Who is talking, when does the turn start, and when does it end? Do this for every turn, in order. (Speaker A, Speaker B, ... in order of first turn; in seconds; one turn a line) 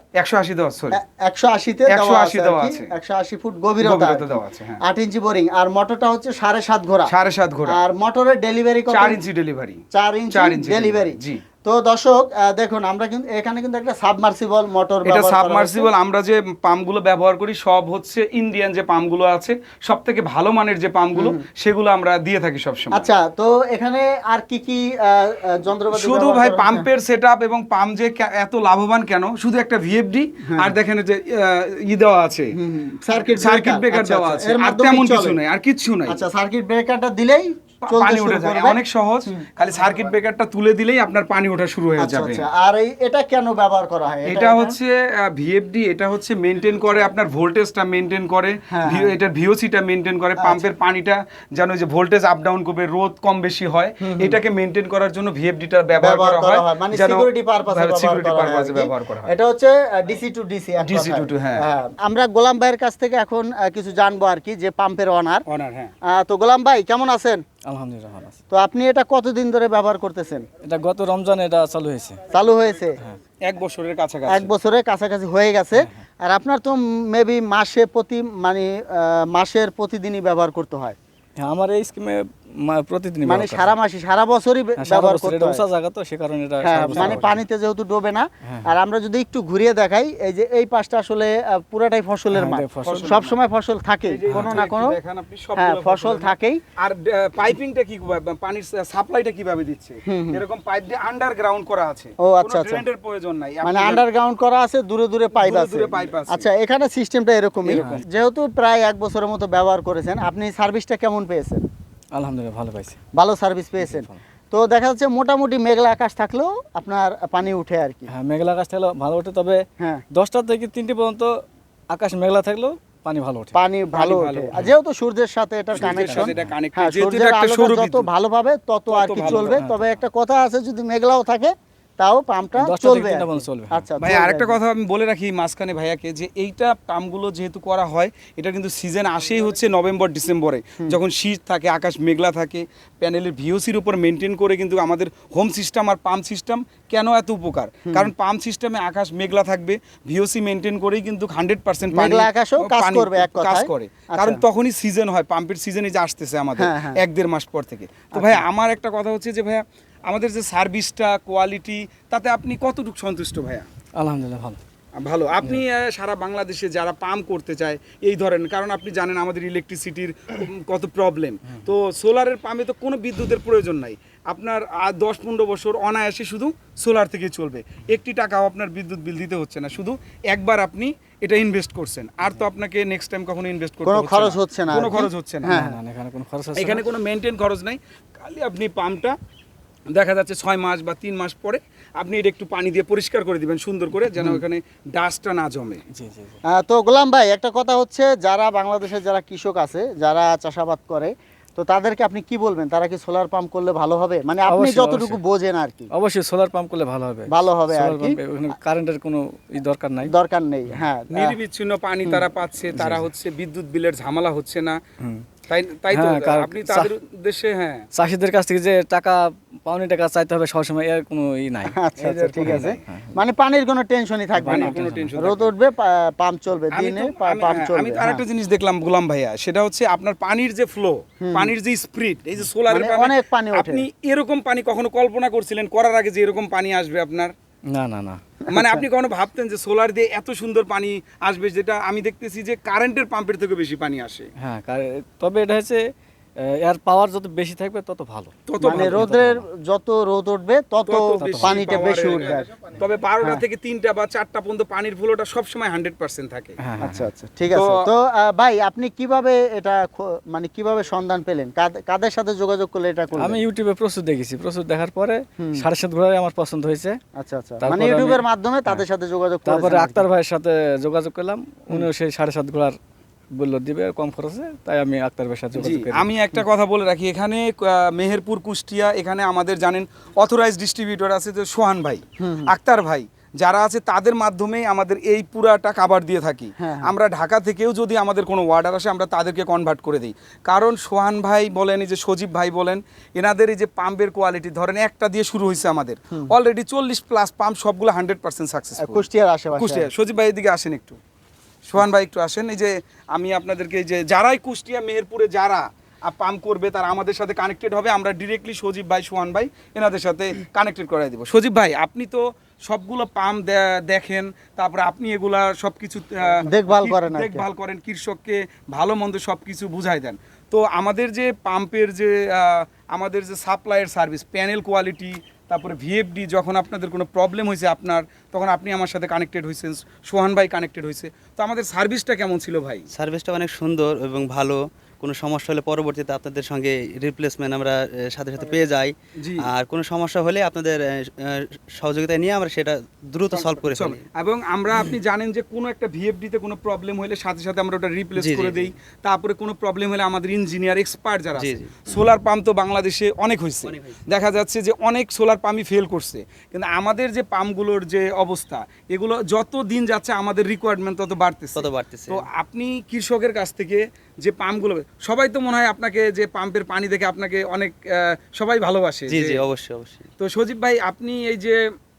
Speaker A: 0.2-1.0
Speaker B: 0.9-7.1
Speaker A: 1.9-2.9
Speaker A: 3.8-4.8
Speaker A: 7.1-7.8
Speaker B: 7.7-9.2
Speaker A: 8.9-9.8
Speaker B: 9.9-15.9
Speaker A: 10.3-11.4
Speaker A: 15.1-23.1
Speaker B: 21.2-21.4
Speaker B: 22.9-26.9
Speaker A: 25.9-32.5
Speaker B: 30.5-30.7
Speaker B: 32.6-35.4
Speaker A: 33.1-36.2
Speaker B: 36.1-39.8
Speaker A: 37.9-42.5
Speaker B: 42.0-44.8
Speaker A: 44.3-59.3
Speaker B: 48.7-49.1
Speaker B: 50.4-50.6
Speaker B: 54.0-54.4
Speaker B: 56.0-65.4
Speaker A: 60.9-61.6
Speaker A: 65.5-65.9
Speaker B: 66.1-67.4
Speaker C: 67.7-68.4
Speaker B: 68.5-70.5
Speaker C: 70.6-72.2
Speaker B: 72.3-73.0
Speaker A: 73.4-74.5
Speaker B: 74.3-81.0
Speaker C: 81.4-83.7
Speaker B: 83.3-85.6
Speaker C: 84.8-87.4
Speaker B: 86.7-95.0
Speaker C: 88.4-88.7
Speaker C: 92.3-93.2
Speaker A: 92.8-93.3
Speaker A: 94.1-104.0
Speaker B: 95.6-96.6
Speaker B: 100.1-100.4
Speaker B: 102.2-102.8
Speaker B: 103.6-111.7
Speaker A: 105.3-106.5
Speaker C: 107.7-108.0
Speaker C: 112.1-113.0
Speaker B: 113.2-118.1
Speaker C: 113.8-114.2
Speaker C: 118.1-121.3
Speaker B: 119.8-120.0
Speaker C: 121.9-123.6
Speaker B: 123.5-134.6
Speaker A: 123.9-124.6
Speaker A: 125.8-128.1
Speaker C: 125.9-126.4
Speaker A: 128.9-129.6
Speaker C: 129.2-129.8
Speaker C: 132.6-133.8
Speaker A: 134.0-163.7
Speaker B: 151.9-154.4
Speaker B: 156.6-157.0
Speaker B: 158.2-158.4
Speaker C: 164.0-164.6
Speaker A: 165.0-185.6
Speaker B: 183.8-185.8
Speaker C: 185.5-186.8
Speaker A: 186.6-189.2
Speaker A: 189.9-195.8
Speaker C: 195.9-196.3
Speaker B: 196.5-205.9
Speaker C: 204.5-205.2
Speaker C: 205.9-210.1
Speaker B: 207.3-208.2
Speaker B: 210.1-211.4
Speaker A: 211.1-214.8
Speaker C: 212.7-213.1
Speaker A: 215.5-217.8
Speaker C: 215.9-216.9
Speaker C: 217.9-221.8
Speaker B: 221.8-228.2
Speaker A: 222.0-222.8
Speaker C: 222.4-223.2
Speaker A: 224.4-225.5
Speaker C: 224.4-225.1
Speaker A: 226.7-237.3
Speaker B: 231.2-231.5
Speaker B: 232.7-233.8
Speaker C: 237.7-238.2
Speaker A: 238.5-244.3
Speaker C: 244.4-245.8
Speaker C: 246.4-249.4
Speaker A: 248.5-249.1
Speaker B: 248.6-252.5
Speaker A: 250.9-256.6
Speaker C: 251.2-251.7
Speaker C: 256.6-257.1
Speaker B: 256.8-263.4
Speaker A: 257.5-257.9
Speaker C: 263.2-267.0
Speaker B: 267.2-270.0
Speaker C: 267.6-268.8
Speaker C: 269.5-272.8
Speaker C: 273.4-276.1
Speaker A: 275.6-299.1
Speaker B: 282.2-282.5
Speaker B: 286.6-286.9
Speaker B: 298.8-299.9
Speaker A: 299.6-301.0
Speaker A: 301.7-332.9
Speaker B: 316.5-317.5
Speaker D: 332.9-344.0
Speaker A: 339.2-339.5
Speaker A: 343.3-369.4
Speaker D: 348.2-348.7
Speaker D: 351.4-351.9
Speaker D: 353.6-354.0
Speaker D: 361.6-362.2
Speaker D: 369.1-370.1
Speaker A: 370.2-371.6